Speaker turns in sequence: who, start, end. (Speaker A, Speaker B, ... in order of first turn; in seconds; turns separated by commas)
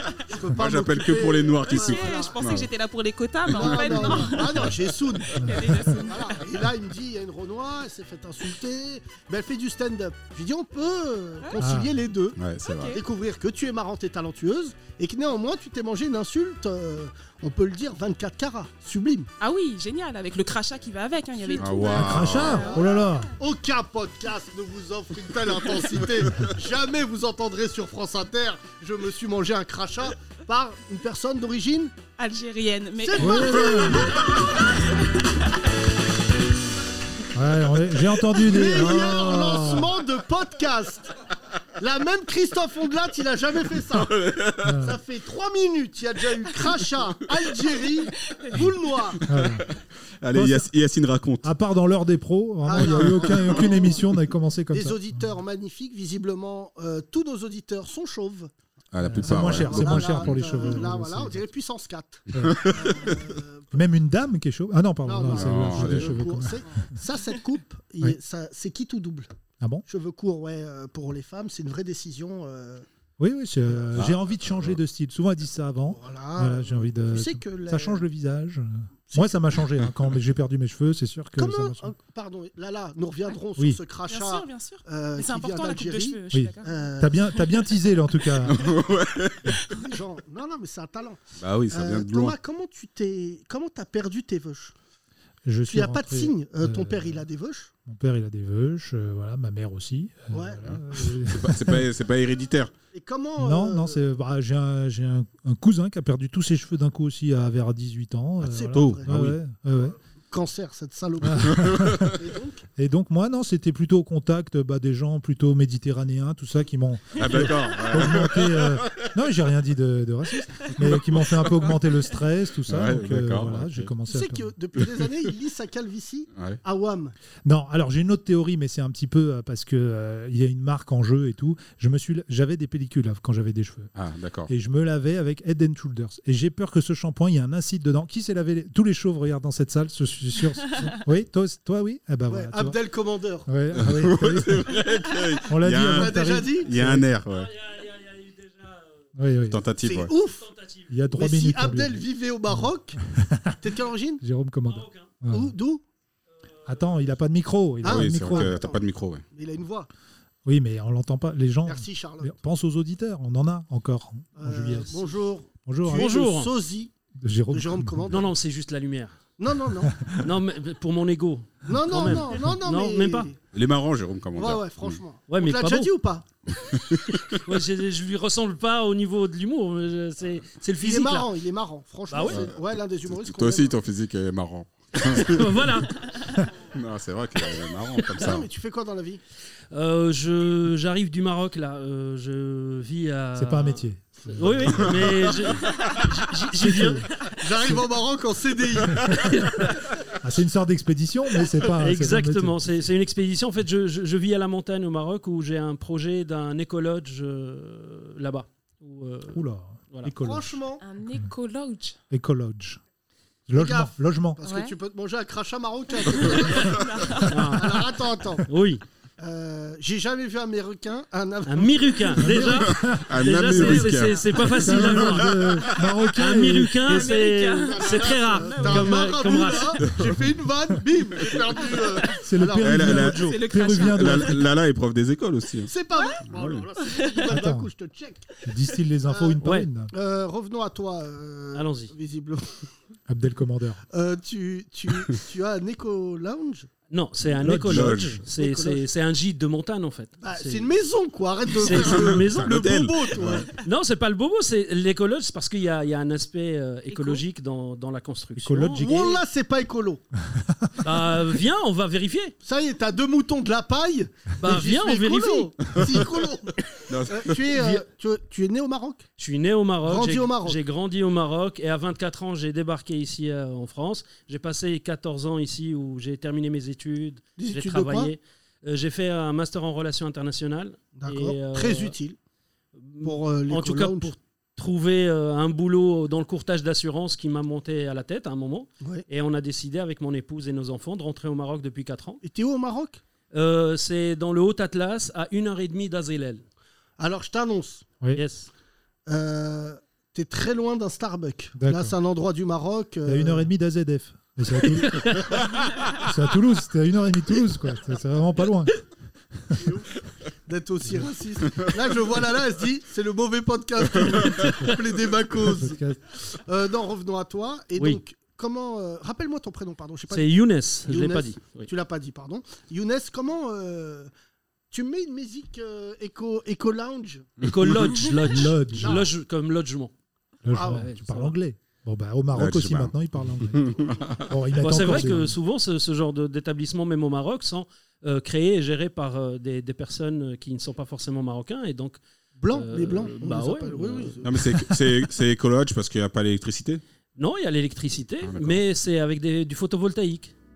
Speaker A: 0.3-2.5, Speaker B: 0.5-2.7, Speaker C: 1.6-4.7, Speaker A: 3.5-12.4, Speaker B: 3.5-4.7, Speaker C: 5.4-6.3, Speaker D: 5.4-5.8, Speaker D: 11.6-12.0, Speaker B: 12.4-13.0, Speaker C: 12.6-13.0, Speaker A: 12.9-19.3, Speaker C: 19.4-22.9, Speaker B: 21.6-22.7, Speaker D: 21.9-23.3, Speaker A: 22.7-32.0, Speaker C: 32.2-33.8, Speaker A: 33.0-34.7, Speaker D: 33.2-34.1, Speaker D: 37.3-40.0, Speaker A: 38.4-41.1, Speaker A: 41.8-44.2, Speaker B: 44.0-44.7, Speaker D: 44.6-45.0, Speaker A: 44.7-49.2, Speaker D: 49.3-49.7, Speaker B: 50.2-51.5, Speaker D: 50.3-50.7, Speaker D: 51.4-55.2, Speaker A: 52.6-54.1, Speaker B: 52.9-53.4, Speaker A: 54.7-58.5, Speaker B: 58.9-60.8, Speaker D: 59.0-61.4, Speaker A: 59.2-63.7, Speaker B: 62.5-63.2, Speaker D: 63.7-66.8, Speaker A: 65.0-69.3, Speaker B: 65.3-66.2, Speaker A: 69.9-72.9, Speaker D: 73.2-81.9, Speaker B: 74.0-74.8, Speaker A: 76.0-78.0, Speaker A: 79.1-79.5, Speaker A: 81.4-87.3, Speaker D: 83.6-83.8, Speaker C: 84.1-87.0, Speaker D: 86.3-88.8, Speaker B: 88.4-89.6, Speaker A: 89.7-94.7, Speaker B: 91.4-92.4, Speaker D: 95.5-97.2, Speaker A: 95.7-97.7, Speaker D: 97.9-101.9, Speaker A: 100.3-100.8, Speaker B: 101.2-102.7, Speaker A: 102.9-104.0, Speaker D: 103.4-110.0, Speaker A: 108.4-109.3, Speaker B: 108.8-109.3, Speaker A: 109.8-112.7, Speaker D: 111.2-112.2, Speaker B: 111.5-112.0, Speaker D: 112.8-124.5, Speaker B: 117.2-119.1, Speaker B: 120.8-121.8, Speaker B: 122.7-123.9, Speaker A: 124.1-127.2, Speaker B: 126.4-126.6, Speaker D: 127.5-133.9, Speaker B: 134.0-134.5, Speaker D: 134.5-142.8, Speaker A: 142.3-143.5, Speaker D: 143.5-144.8, Speaker B: 143.8-147.5, Speaker D: 145.5-147.1, Speaker A: 145.7-146.7, Speaker E: 147.3-149.0, Speaker D: 149.2-149.6, Speaker B: 149.5-150.1, Speaker A: 149.8-150.4, Speaker E: 150.3-150.9, Speaker D: 150.9-153.6, Speaker A: 151.1-153.0, Speaker A: 153.6-154.2, Speaker D: 154.2-155.6, Speaker E: 154.7-155.1, Speaker A: 155.3-155.8, Speaker D: 156.7-158.5, Speaker A: 157.8-159.9, Speaker B: 157.8-159.2, Speaker D: 160.4-165.1, Speaker A: 161.7-162.4, Speaker A: 164.4-166.9, Speaker D: 165.7-166.2, Speaker E: 165.9-166.5, Speaker D: 167.2-168.1, Speaker A: 167.5-168.3, Speaker E: 168.1-169.2, Speaker A: 169.4-170.0, Speaker E: 170.2-173.3, Speaker A: 171.7-173.4, Speaker B: 173.5-175.0, Speaker A: 174.4-176.2, Speaker E: 175.3-175.9, Speaker B: 176.7-177.2, Speaker E: 177.4-181.3, Speaker A: 180.8-183.8, Speaker E: 182.1-182.5, Speaker B: 182.3-185.4, Speaker E: 185.2-185.9, Speaker B: 186.7-188.5, Speaker A: 188.2-189.2, Speaker E: 189.7-197.1, Speaker D: 193.4-195.1, Speaker D: 196.6-197.1, Speaker A: 197.4-199.2, Speaker D: 198.9-199.4, Speaker E: 199.4-199.8, Speaker D: 200.1-202.7, Speaker E: 201.7-210.1, Speaker D: 209.3-210.6, Speaker A: 210.2-210.8, Speaker C: 210.8-212.0, Speaker D: 212.1-212.8, Speaker D: 213.5-214.4, Speaker A: 213.6-218.4, Speaker C: 216.7-217.2, Speaker E: 217.2-217.9, Speaker E: 218.5-218.8, Speaker A: 219.2-222.3, Speaker E: 221.5-225.4, Speaker D: 222.2-227.2, Speaker B: 222.7-225.9, Speaker E: 226.2-229.8, Speaker C: 226.8-228.6, Speaker A: 227.8-233.2, Speaker D: 228.6-229.0, Speaker D: 232.2-234.5, Speaker B: 232.6-235.7, Speaker C: 233.2-234.3, Speaker A: 235.7-238.4, Speaker B: 236.3-236.7, Speaker D: 237.2-237.7, Speaker D: 238.4-239.9, Speaker A: 239.1-242.6, Speaker E: 239.4-239.7, Speaker E: 241.6-241.9, Speaker D: 243.1-243.8, Speaker A: 243.9-246.7, Speaker E: 246.9-250.7, Speaker D: 247.4-248.2, Speaker B: 247.6-248.2, Speaker A: 248.3-248.8, Speaker A: 250.2-253.5, Speaker E: 251.6-252.5, Speaker B: 251.7-253.5, Speaker E: 253.6-259.1, Speaker C: 256.9-257.2, Speaker D: 258.4-259.2, Speaker A: 258.8-260.0, Speaker D: 260.4-260.7, Speaker E: 260.8-262.4, Speaker A: 262.4-269.1, Speaker E: 264.4-265.5, Speaker B: 266.8-267.5, Speaker E: 269.2-282.0, Speaker A: 269.9-270.6, Speaker A: 277.4-278.1, Speaker A: 280.9-282.2, Speaker E: 282.8-292.2, Speaker A: 283.0-284.1, Speaker A: 292.2-293.0, Speaker E: 293.3-296.4, Speaker A: 297.0-297.9, Speaker E: 298.1-298.5, Speaker A: 299.1-303.5, Speaker D: 301.6-301.9, Speaker D: 303.1-305.4, Speaker D: 305.9-308.8, Speaker A: 309.5-324.1, Speaker D: 315.4-316.0, Speaker E: 320.1-321.7, Speaker A: 324.7-327.3, Speaker E: 327.4-329.9, Speaker D: 328.2-329.1, Speaker A: 328.8-329.1, Speaker D: 330.4-335.4, Speaker A: 330.5-330.9, Speaker E: 330.5-331.4, Speaker B: 332.3-332.9, Speaker B: 333.6-334.2, Speaker E: 334.6-342.0, Speaker A: 342.4-344.3, Speaker E: 342.5-344.2, Speaker B: 344.2-346.8, Speaker D: 344.4-344.9, Speaker E: 347.2-350.3, Speaker B: 348.3-348.6